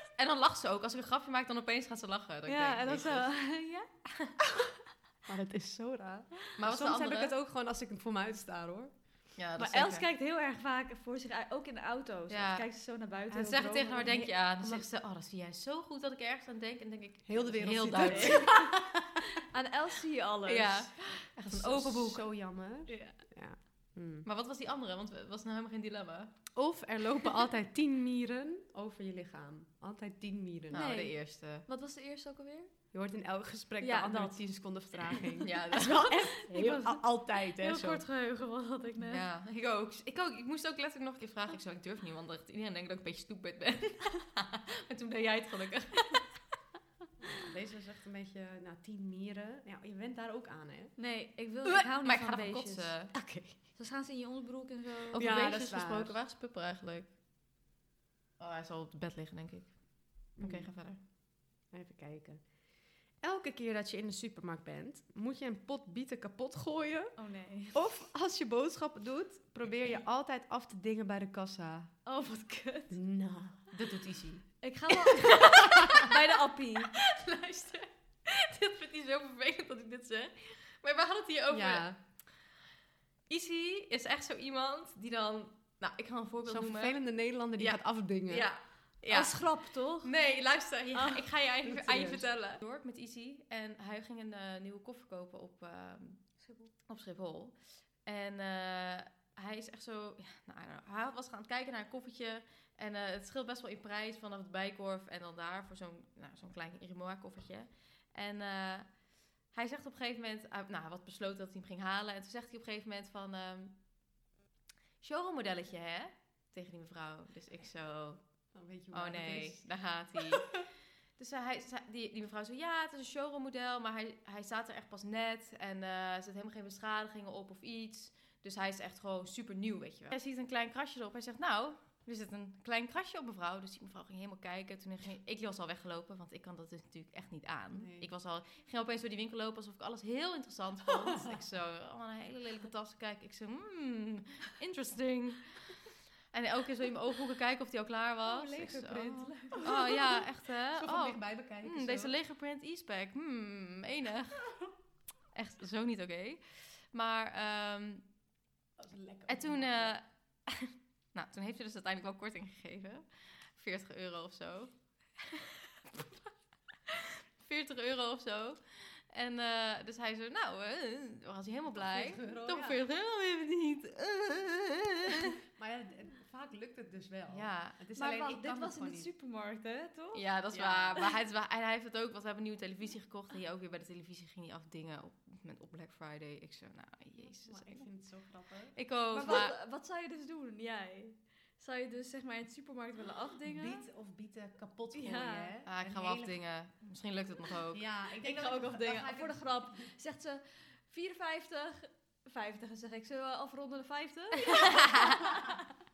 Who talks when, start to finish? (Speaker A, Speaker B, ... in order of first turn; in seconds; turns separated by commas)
Speaker A: 0.1-3.3, Speaker B: 2.5-3.9, Speaker C: 5.3-9.0, Speaker A: 6.5-7.3, Speaker A: 9.3-10.1, Speaker B: 9.6-14.3, Speaker A: 12.3-12.7, Speaker A: 13.3-18.5, Speaker C: 17.2-18.9, Speaker B: 17.9-18.7, Speaker B: 19.4-20.9, Speaker A: 20.4-22.2, Speaker C: 21.5-24.2, Speaker B: 22.9-23.2, Speaker A: 24.2-26.3, Speaker C: 26.6-30.9, Speaker A: 30.7-31.6, Speaker B: 30.7-32.7, Speaker C: 32.9-38.0, Speaker B: 33.8-34.4, Speaker A: 35.4-36.1, Speaker B: 36.3-39.2, Speaker A: 39.1-46.2, Speaker C: 47.3-50.9, Speaker B: 51.0-53.2, Speaker A: 52.0-53.1, Speaker C: 53.1-53.5, Speaker B: 53.7-55.3, Speaker A: 55.1-57.1, Speaker C: 55.1-56.2, Speaker A: 58.4-61.0, Speaker C: 60.4-60.7, Speaker C: 61.7-62.5, Speaker C: 63.2-67.2, Speaker B: 67.2-67.8, Speaker C: 67.7-71.9, Speaker B: 72.0-73.0, Speaker C: 72.9-73.6, Speaker A: 73.7-74.5, Speaker B: 74.6-76.9, Speaker A: 76.9-82.0, Speaker C: 81.5-82.0, Speaker A: 83.3-87.0, Speaker C: 86.4-88.5, Speaker A: 87.5-96.3, Speaker B: 89.1-90.1, Speaker B: 90.9-91.2, Speaker C: 91.6-92.3, Speaker A: 96.8-113.8, Speaker A: 115.0-118.2, Speaker C: 118.5-119.7, Speaker A: 118.9-120.6, Speaker A: 121.2-154.5, Speaker C: 137.7-138.1, Speaker C: 148.2-152.1, Speaker A: 155.3-158.1, Speaker C: 158.8-159.9, Speaker A: 159.3-166.1, Speaker A: 166.9-175.3, Speaker C: 171.7-172.8, Speaker C: 175.4-179.1, Speaker A: 177.3-177.8, Speaker B: 177.9-180.3, Speaker A: 180.1-187.9, Speaker C: 180.5-181.0, Speaker C: 187.4-188.8, Speaker A: 188.7-189.5, Speaker B: 189.1-193.8, Speaker C: 193.4-196.4, Speaker B: 194.9-195.5, Speaker A: 195.7-197.8, Speaker C: 197.7-199.9, Speaker B: 198.2-205.5